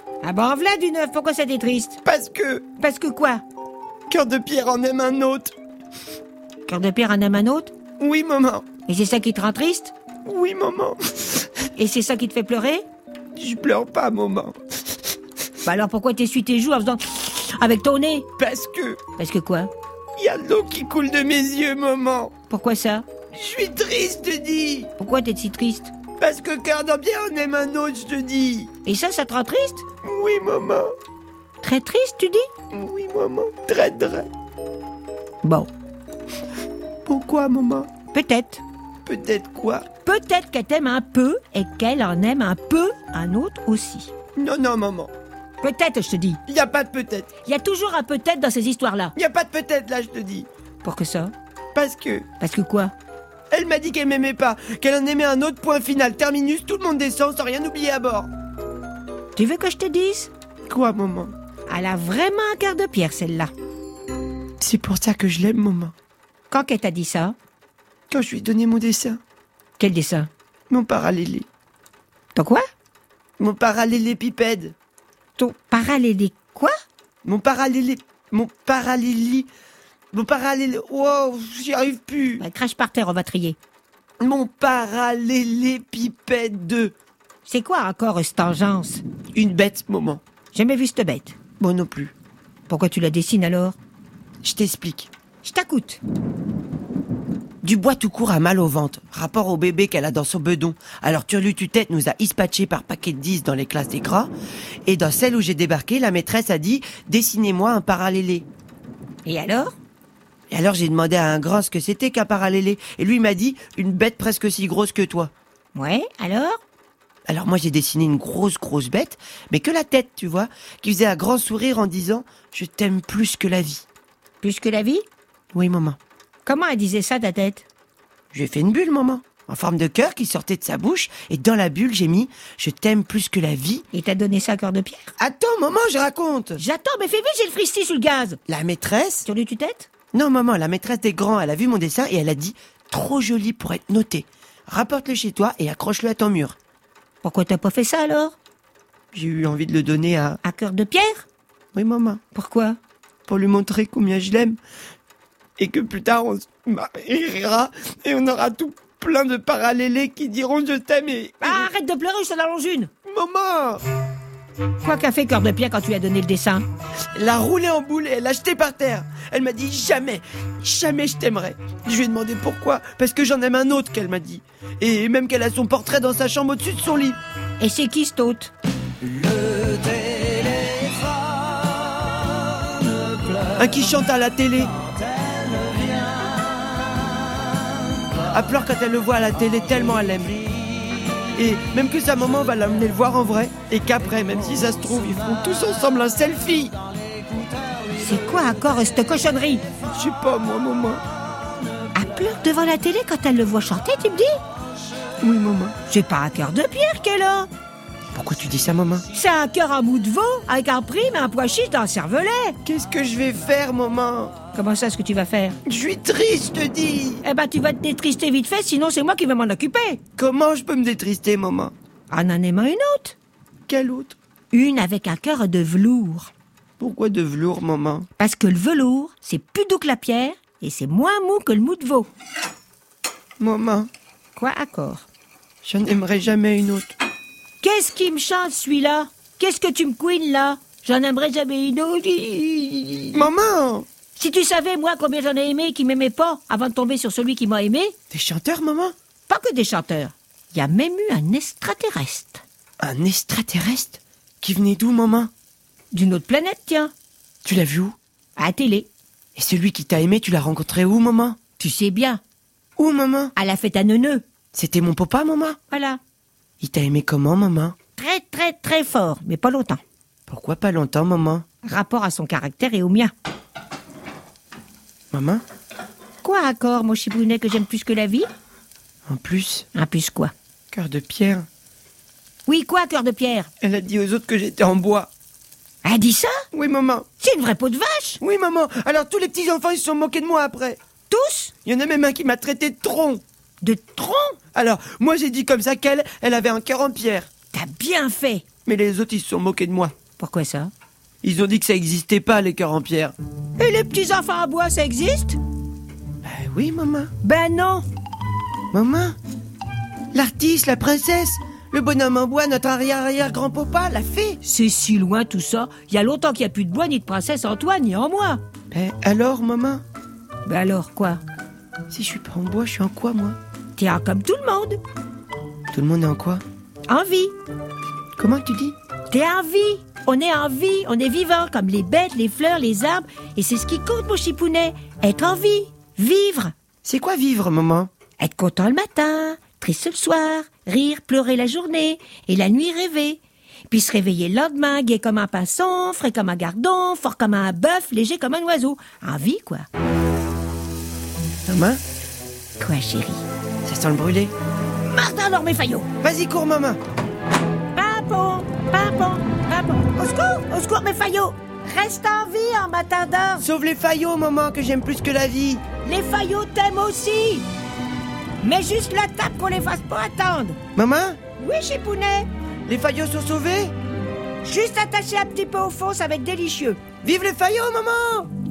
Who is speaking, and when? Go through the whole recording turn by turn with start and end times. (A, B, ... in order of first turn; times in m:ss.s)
0:00.2-0:02.0 A
0:02.0-0:02.6 B
0:02.8-0:03.4 A
0:04.1-0:05.5 B
0:06.7-0:07.7 A
0:08.0-0:08.7 B
0:08.8-0:09.9 A
0:10.2-0:11.4 B
0:11.8-0:12.8 A
0:13.3-0:14.6 B
0:15.6-0:18.2 A
0:18.4-0:19.0 B
0:19.2-0:19.7 A
0:20.2-0:22.3 B
0:22.5-0:23.0 A
0:23.3-0:24.9 B
0:25.0-0:25.9 A
0:26.2-0:28.7 B
0:28.8-0:29.8 A
0:30.0-0:30.9 B
0:31.6-0:32.5 A
0:32.7-0:34.3 B
0:35.4-0:35.7 A
0:37.0-0:37.9 B
0:38.1-0:38.6 A
0:39.0-0:39.8 B
0:40.0-0:44.1 A
0:44.4-0:45.1 B
0:45.6-0:46.4 A
0:46.5-0:47.3 B
0:47.4-0:49.1 A
0:49.2-0:50.5 B
0:50.8-0:51.3 A
0:51.7-0:52.2 B
0:52.4-0:52.9 A
0:53.5-0:58.3 B
0:59.4-1:00.3 A
1:00.7-1:01.3 B
1:01.7-1:03.5 A
1:04.6-1:05.9 B
1:06.5-1:07.4 A
1:08.1-1:09.2 B
1:09.8-1:10.3 A
1:10.7-1:11.5 B
1:12.3-1:12.6 A
1:13.4-1:14.7 B
1:15.4-1:16.7 A
1:17.2-1:19.5 B
1:20.1-1:22.4 B
1:22.4-1:23.6 A
1:24.2-1:26.9 B
1:27.4-1:29.0 A
1:29.3-1:30.2 B
1:30.5-1:31.4 A
1:31.6-1:32.1 B
1:32.7-1:33.8 A
1:34.4-1:35.1 B
1:35.4-1:36.0 A
1:37.6-1:44.3 B
1:44.8-1:48.4 B
1:49.2-1:49.7 A
1:50.5-1:55.3 B
1:55.7-1:56.6 A
1:57.2-2:03.8 B
2:04.4-2:05.0 A
2:05.5-2:06.0 B
2:06.4-2:07.6 A
2:08.3-2:13.8 B
2:13.9-2:15.1 A
2:15.2-2:16.6 B
2:16.6-2:18.4 A
2:18.5-2:19.2 B
2:19.2-2:19.9 A
2:20.1-2:26.6 B
2:27.2-2:28.4 A
2:29.1-2:30.4 B
2:30.4-2:31.2 A
2:31.7-2:32.2 B
2:32.3-2:32.8 A
2:33.3-2:34.6 B
2:35.6-2:41.7 B
2:41.4-2:42.9 A
2:43.0-2:43.8 B
2:44.8-2:46.6 A
2:47.1-2:57.2 B
2:57.6-2:58.5 A
3:03.6-3:04.7 B
3:08.3-3:10.4 B
3:11.3-3:16.7 B
3:18.0-3:19.6 A
3:19.9-3:21.0 B
3:21.9-3:24.3 A
3:25.2-3:25.8 B
3:25.8-3:27.5 A
3:28.1-3:29.0 B
3:29.1-3:32.6 A
3:32.6-3:34.3 B
3:34.5-3:35.6 A
3:35.6-3:37.2 B
3:37.2-3:40.0 A
3:40.2-3:41.7 B
3:42.1-3:43.2 A
3:43.7-3:44.2 B
3:44.5-3:46.3 A
3:46.8-3:48.1 B
3:48.2-3:52.1 A
3:53.4-3:53.9 B
3:54.4-3:55.1 A
3:55.6-3:56.9 B
3:57.6-4:03.3 A
4:03.1-4:03.8 B
4:04.2-4:07.9 A
4:08.1-4:08.9 B
4:09.3-4:12.4 A
4:12.8-4:15.3 B
4:15.9-4:16.9 A
4:17.4-4:18.0 B
4:18.4-4:18.9 A
4:19.4-4:21.4 B
4:21.6-4:22.2 A
4:22.8-4:23.3 B
4:23.4-4:24.2 A
4:24.5-4:25.6 B
4:25.7-4:26.0 A
4:26.6-4:27.7 B
4:28.0-4:29.8 A
4:30.3-4:31.4 B
4:31.6-4:33.1 A
4:35.1-4:35.4 B
4:36.2-4:38.3 A
4:39.1-4:39.7 B
4:39.7-4:40.3 A
4:40.7-4:41.5 B
4:42.4-4:43.5 A
4:43.6-4:45.1 B
4:45.8-4:46.4 A
4:46.5-4:47.0 B
4:47.2-4:48.2 A
4:48.2-4:50.8 B
4:51.1-4:51.5 A
4:51.6-4:53.2 B
4:53.6-4:54.4 A
4:54.5-4:57.3 B
4:57.5-4:58.4 A
4:58.6-4:59.9 B
5:00.2-5:00.7 A
5:01.2-5:03.1 B
5:03.6-5:05.4 A
5:06.2-5:07.1 B
5:07.2-5:07.8 A
5:08.7-5:09.2 B
5:10.1-5:14.4 B
5:14.4-5:18.4 A
5:18.7-5:19.8 B
5:20.4-5:21.2 A
5:21.9-5:23.4 B
5:23.8-5:24.8 A
5:25.7-5:26.4 B
5:26.9-5:27.3 A
5:28.2-5:28.8 B
5:29.1-5:36.5 A
5:36.8-5:37.9 B
5:38.2-5:49.7 A
5:51.5-5:51.8 B
5:52.6-5:53.2 A
5:53.6-5:54.3 B
5:54.9-5:55.9 A
5:56.0-5:56.8 B
5:57.7-6:03.5 A
6:03.4-6:05.6 B
6:05.8-6:07.4 A
6:08.4-6:10.6 A
6:10.7-6:11.2 B
6:11.4-6:12.3 A
6:12.7-6:13.7 B
6:14.4-6:16.8 A
6:17.0-6:18.3 B